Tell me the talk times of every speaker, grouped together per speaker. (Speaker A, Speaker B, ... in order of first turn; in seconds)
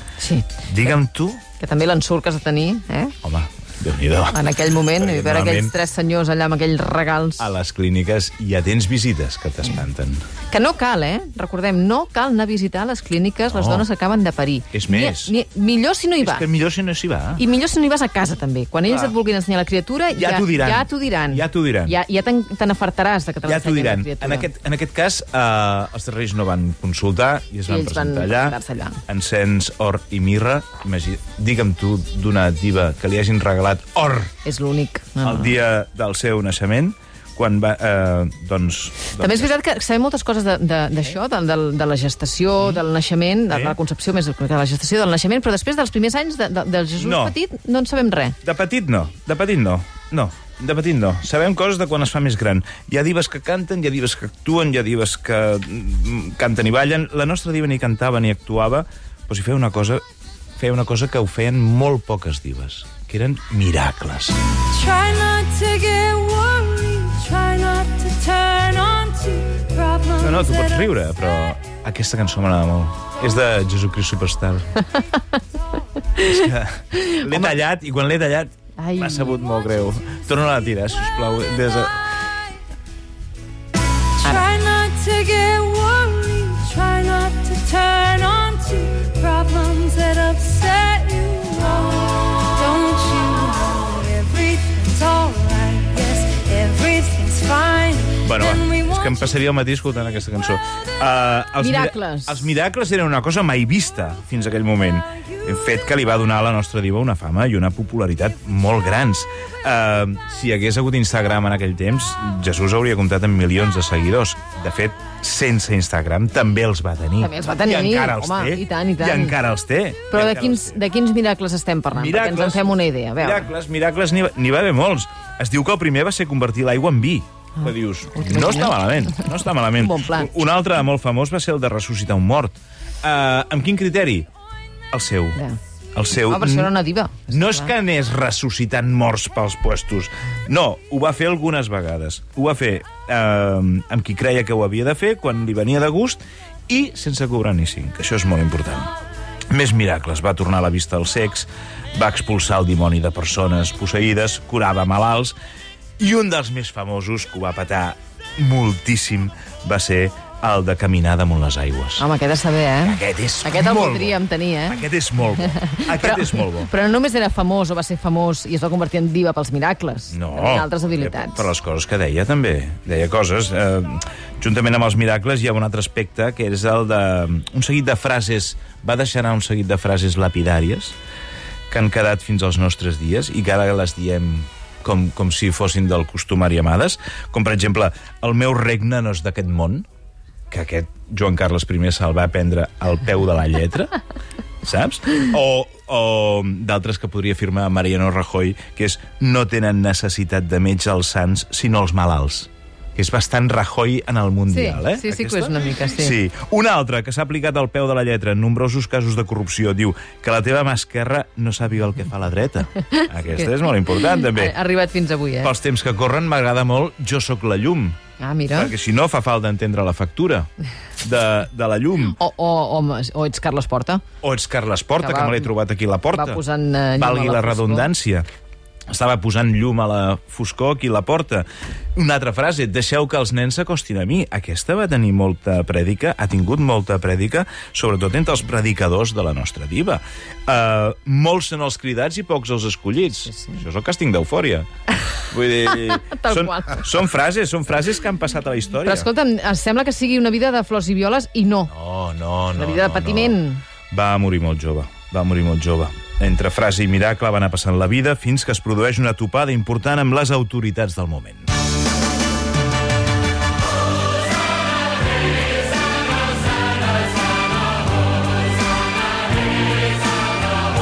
Speaker A: 0.2-0.5, 1.6-3.1, 4.3-7.5, 10.5-16.5, 17.4-24.5, 27.7-29.0, 34.5-35.6, 39.2-48.4, 77.0-77.5, 78.8-79.4, 101.6-102.5, 117.2-119.4, 120.1-123.5, 127.6-129.3, 129.8-130.3, 136.3-137.7, 162.0-164.8, 165.4-171.5, 204.5-206.2, 212.9-215.5, 218.2-218.7, 222.2-224.0, 225.0-225.5, 226.1-227.9, 245.7-246.9, 248.8-251.7, 252.6-253.6
Speaker B: 0.6-1.4, 3.2-4.4, 5.0-5.8, 7.4-10.2, 13.5-13.9, 14.7-15.3, 16.2-17.4, 20.1-22.0, 23.5-34.3, 35.2-39.5, 43.5-43.8, 47.0-47.4, 48.4-60.0, 60.6-64.4, 70.2-74.8, 76.2-82.0, 98.2-120.8, 121.9-134.3, 134.9-135.4, 135.9-136.7, 137.3-148.9, 149.5-155.3, 156.0-162.0, 162.8-166.7, 170.1-181.0, 181.7-189.9, 190.5-194.0, 194.6-214.5, 215.4-218.0, 218.6-220.5, 221.0-222.2, 224.2-226.4, 227.0-228.3, 228.9-244.7, 245.3-249.1, 251.7-261.5
Speaker C: 64.7-70.8, 84.2-98.9